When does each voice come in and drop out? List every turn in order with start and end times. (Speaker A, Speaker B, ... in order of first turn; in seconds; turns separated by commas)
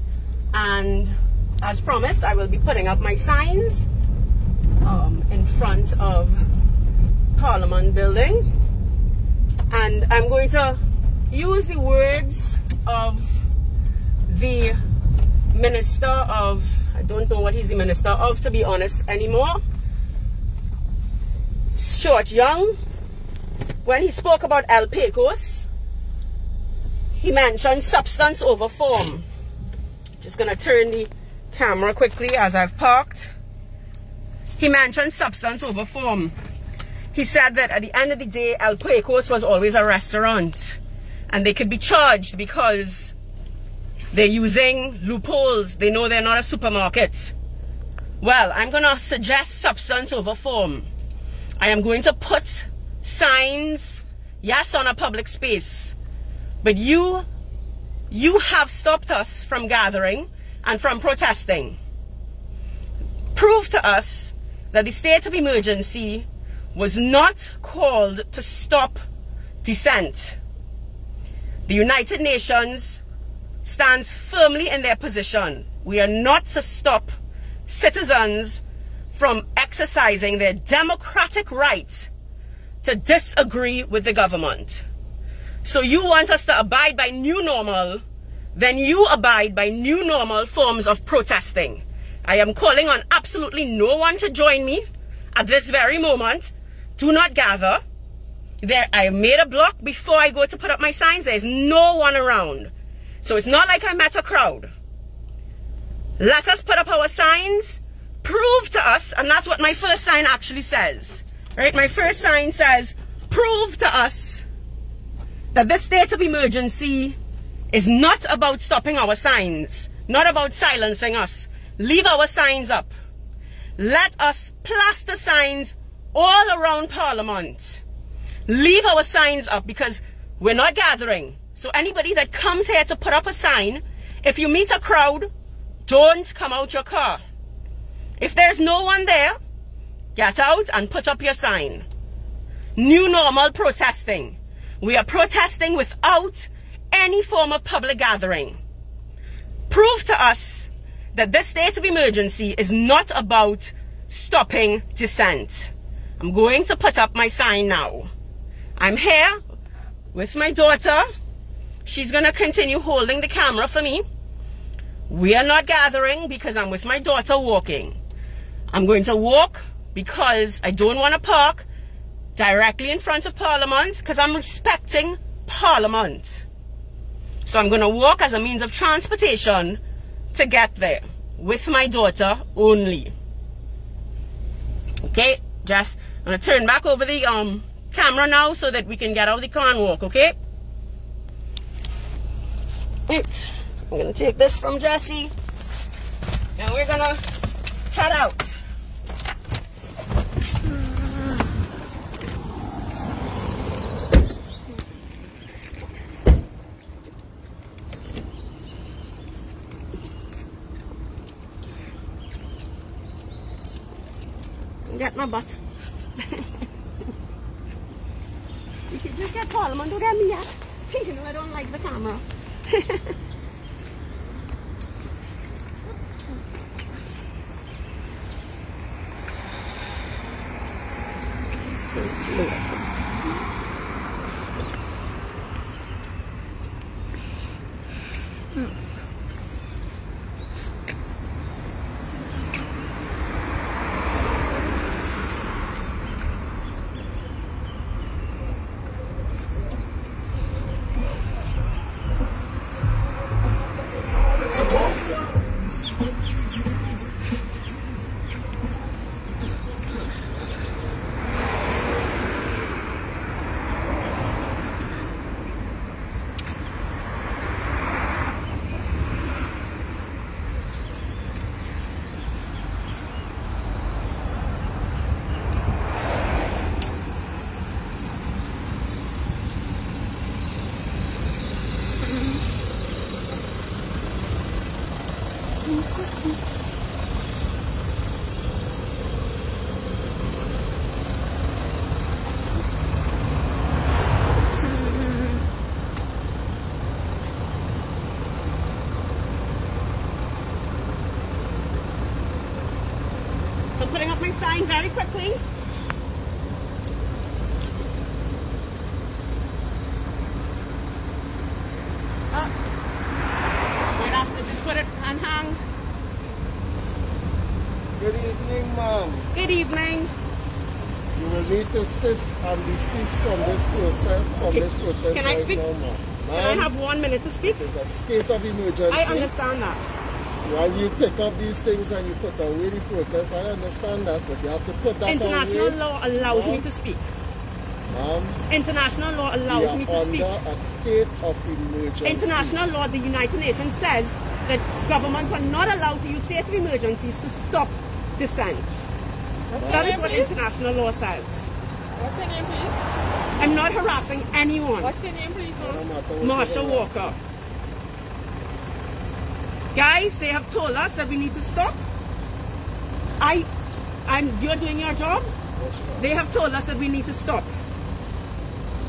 Speaker A: 0.5-3.9, Speaker A: 4.8-6.5, Speaker A: 7.3-8.5, Speaker A: 9.7-13.5, Speaker A: 14.3-14.8, Speaker A: 15.5-19.6, Speaker A: 21.8-22.8, Speaker A: 23.8-25.7, Speaker A: 27.1-29.3, Speaker A: 30.2-33.3, Speaker A: 34.6-36.4, Speaker A: 37.1-40.8, Speaker A: 41.3-43.1, Speaker A: 44.1-47.3, Speaker A: 48.2-50.9, Speaker A: 51.6-56.0, Speaker A: 56.6-57.3, Speaker A: 58.1-61.8, Speaker A: 63.3-69.0, Speaker A: 69.6-70.4, Speaker A: 71.7-73.0, Speaker A: 73.6-77.1, Speaker A: 77.7-78.6, Speaker A: 79.1-82.1, Speaker A: 82.8-84.8, Speaker A: 85.6-88.0, Speaker A: 88.5-97.8, Speaker A: 98.6-102.7, Speaker A: 103.2-104.7, Speaker A: 106.2-114.4, Speaker A: 115.5-117.2, Speaker A: 117.7-122.9, Speaker A: 123.8-127.8, Speaker A: 128.5-135.3, Speaker A: 135.9-137.2, Speaker A: 138.2-139.4, Speaker A: 140.2-141.9, Speaker A: 142.8-148.6, Speaker A: 149.7-158.1, Speaker A: 158.8-159.4, Speaker A: 160.1-161.1, Speaker A: 161.8-164.0, Speaker A: 165.1-168.0, Speaker A: 168.7-171.7, Speaker A: 172.4-176.4, Speaker A: 177.4-179.8, Speaker A: 180.3-183.1, Speaker A: 185.0-190.4, Speaker A: 193.1-195.3, Speaker A: 196.6-197.2, Speaker A: 197.9-198.6, Speaker A: 214.9-215.6, Speaker A: 216.2-216.6, Speaker A: 218.9-223.2, Speaker A: 231.9-232.8, Speaker A: 303.7-305.4, Speaker A: 313.9-315.6, Speaker B: 318.0-319.3, Speaker A: 319.3-320.1, Speaker B: 321.1-326.7, Speaker A: 324.4-325.6, Speaker A: 326.4-327.6, Speaker B: 327.4-329.3, Speaker A: 328.9-329.8, Speaker B: 330.4-336.7, Speaker A: 335.1-337.1, Speaker B: 337.9-338.4, Speaker A: 338.5-340.3, Speaker B: 339.5-342.6, Speaker A: 342.0-348.8, Speaker C: 349.5-350.4, Speaker B: 349.5-350.1, Speaker A: 349.6-351.5, Speaker C: 352.0-352.8, Speaker A: 353.4-354.9, Speaker C: 354.8-355.8, Speaker B: 355.6-357.2, Speaker A: 356.2-357.2, Speaker A: 359.7-361.8, Speaker A: 363.2-363.5, Speaker A: 364.1-365.3, Speaker B: 365.6-366.1, Speaker A: 366.0-367.5